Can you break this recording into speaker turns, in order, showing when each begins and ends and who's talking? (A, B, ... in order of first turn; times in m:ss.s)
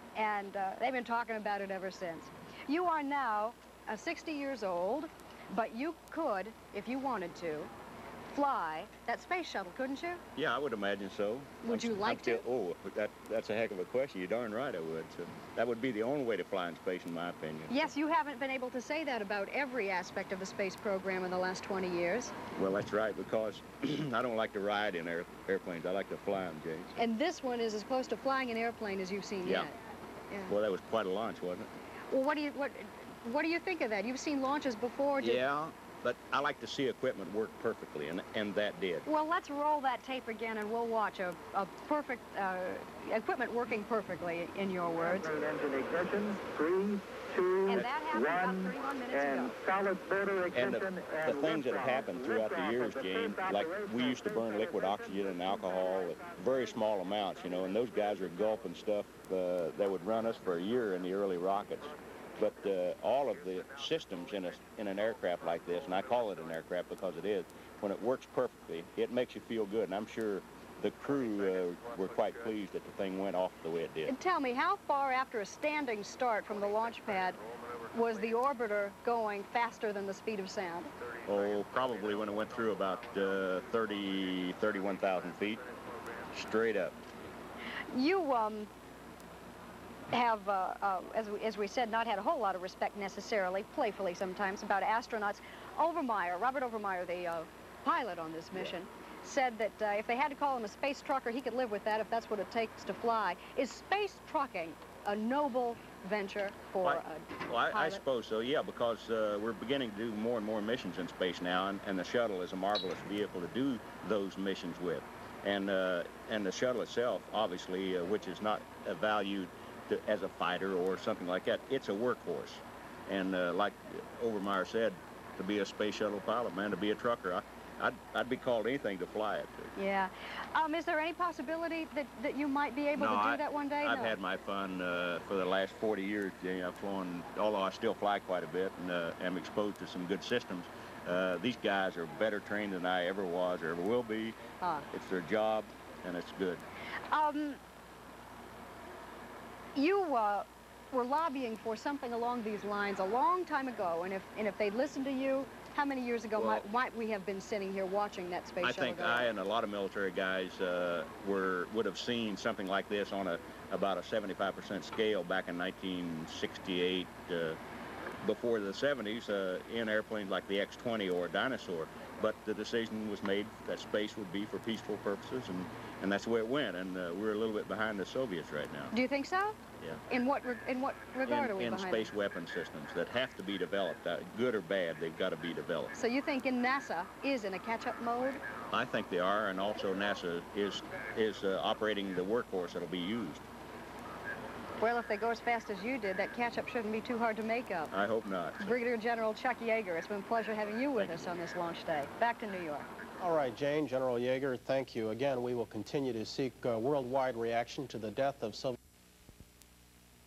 0:00.2-0:07.7 A
0:08.3-0:10.2 A
0:10.4-0:17.9 B
0:11.6-0:12.4 A
0:17.7-0:22.3 A
0:22.6-0:27.0 B
0:27.0-0:29.7 A
0:29.4-0:29.7 B
0:30.5-0:31.7 B
0:32.1-0:35.4 A
0:35.2-0:39.0 B
0:39.0-0:45.4 A
0:44.9-0:58.6 C
0:47.6-0:49.6 A
0:50.5-1:14.1 B
1:14.1-1:20.9 A
1:21.2-1:25.6 B
1:26.3-1:27.0 B
1:27.9-1:28.7 A
1:30.1-1:48.0 A
1:46.8-2:09.7 B
2:09.8-2:14.2 A
2:13.0-2:24.4 B
2:24.6-2:24.8 A
2:24.9-2:26.6 B
2:27.1-2:27.6 A
2:29.7-2:39.3 A
2:36.4-2:36.6 B
2:38.6-2:47.6 B
2:48.2-2:58.9 B
2:58.9-2:59.5 A
3:00.1-3:02.1 A
3:01.2-3:05.9 B
3:05.9-3:08.4 A
3:08.7-3:13.4 B
3:14.8-3:17.9 A
3:17.9-3:18.8 B
3:18.6-3:22.9 A
3:21.0-3:21.4 B
3:23.2-3:28.8 D